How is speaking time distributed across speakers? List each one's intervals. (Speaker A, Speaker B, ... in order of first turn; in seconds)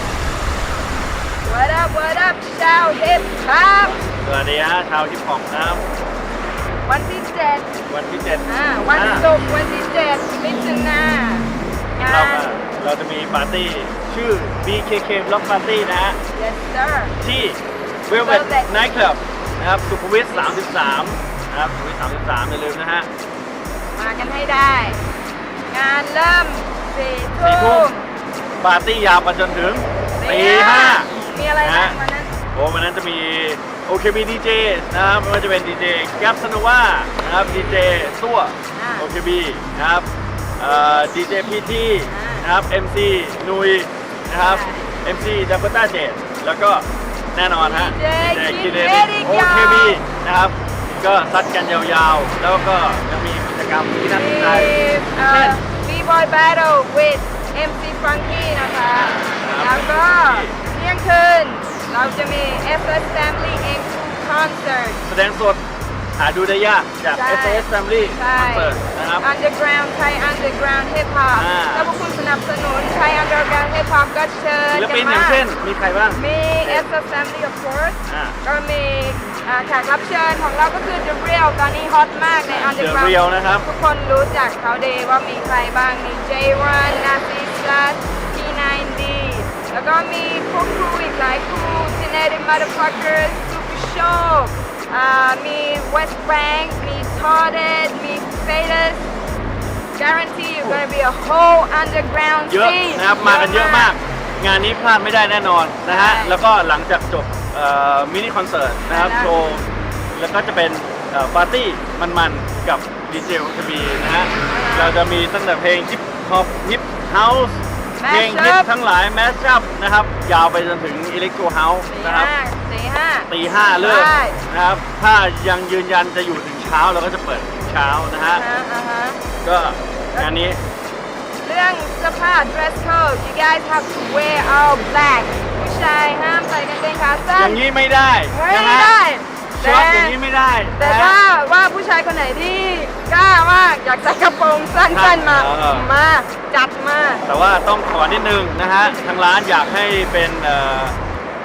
Speaker A: 1.4-4.0, 6.8-7.7, 8.4-12.6, 16.3-17.1, 18.1-18.7, 20.3-20.6, 24.0-25.0, 25.7-28.1, 30.2-32.4, 38.7-39.1, 42.1-42.5, 44.3-44.9, 47.6-50.0, 54.0-65.0, 67.1-75.4, 76.1-99.1, 100.0-103.9, 105.9-106.4, 108.9-109.3, 114.5-115.0, 117.9-118.7, 121.9-124.4, 128.3-129.2, 130.1-130.5, 131.4-137.6, 138.3-147.2
Speaker B: 3.8-5.8, 7.9-9.3, 12.0-16.2, 17.2-23.1, 27.4-27.9, 28.6-31.1, 31.6-32.0, 32.5-40.1, 40.6-55.6, 58.9-60.5, 65.0-65.6, 66.2-69.2, 71.3-71.9, 74.7-76.9, 78.1-78.4, 82.5-83.7, 102.5-109.6, 110.1-122.3, 123.3-128.4, 129.4-130.6, 137.3-139.0, 139.6-141.2, 144.9-145.9, 147.2-150.9